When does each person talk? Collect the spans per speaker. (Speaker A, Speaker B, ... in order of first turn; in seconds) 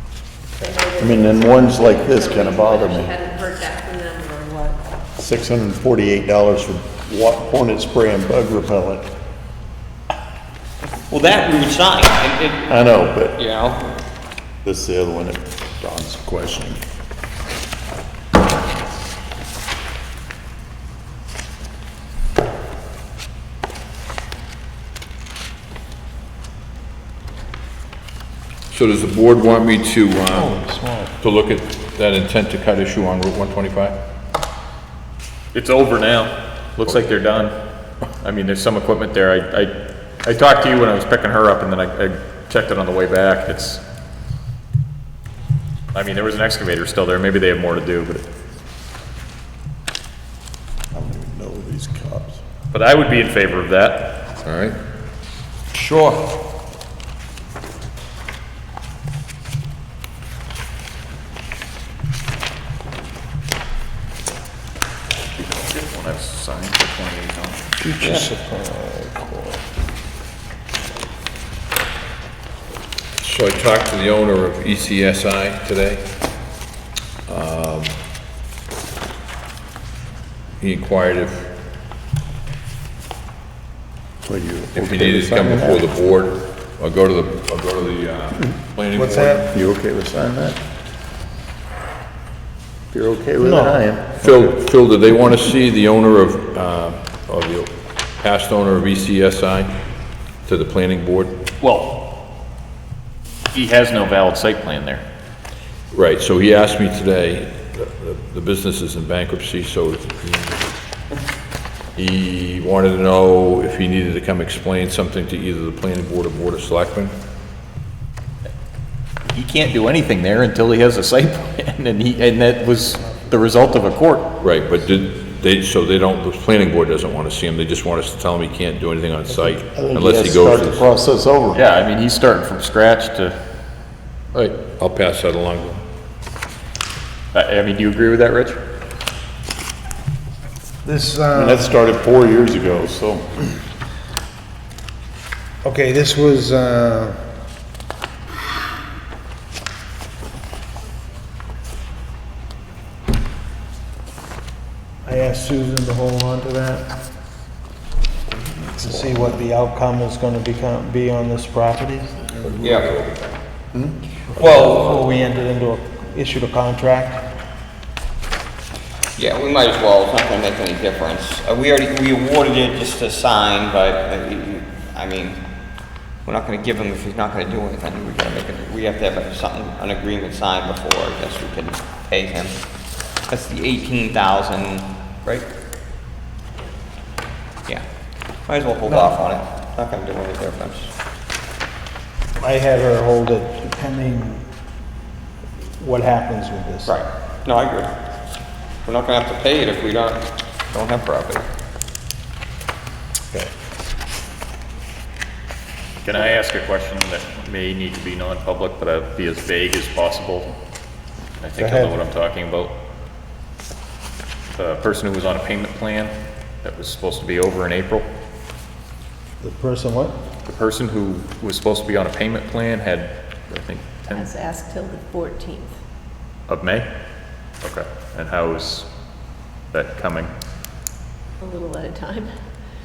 Speaker A: 0.6-4.8, 224.1-225.8, 231.4-232.3
Speaker B: 1.0-3.1, 5.2-9.0, 12.7-13.3, 14.7-16.7, 51.0-52.4, 84.2-85.9, 89.6-90.6, 92.9-93.9, 129.8-131.6, 141.3-143.3, 158.4-159.4
Speaker C: 11.1-12.7, 13.3-14.0, 55.7-56.3, 162.6-162.9, 169.2-175.4, 176.2-182.6, 183.3-185.5, 188.5-190.9, 196.9-197.9, 198.8-201.5
Speaker D: 28.7-30.5, 31.2-34.0, 54.5-54.8, 73.2-76.0, 77.3-77.9, 80.6-81.5, 84.7-89.5, 94.2-99.7, 100.4-101.3, 105.9-110.7, 112.0-117.1, 124.4-130.9, 134.3-135.8, 162.4-163.2, 164.4-165.1
Speaker E: 30.3-31.2, 67.8-69.6, 88.9-89.5, 93.4-93.8, 122.9-123.3, 140.8-141.8, 145.6-147.2, 155.1-156.9, 158.8-162.3, 164.3-167.2, 188.9-189.1, 192.4-194.5, 195.8-197.0, 211.6-211.9, 219.4-220.2
Speaker F: 35.5-37.5, 38.2-43.8, 45.9-48.3, 52.7-54.2, 65.3-67.7, 101.6-102.0, 103.5-105.0, 119.3-124.3, 131.5-133.4, 137.3-138.6, 206.0-210.6, 211.4-212.8, 214.5-218.1, 220.4-224.3, 226.5-226.9, 227.6-228.9, 229.7-230.3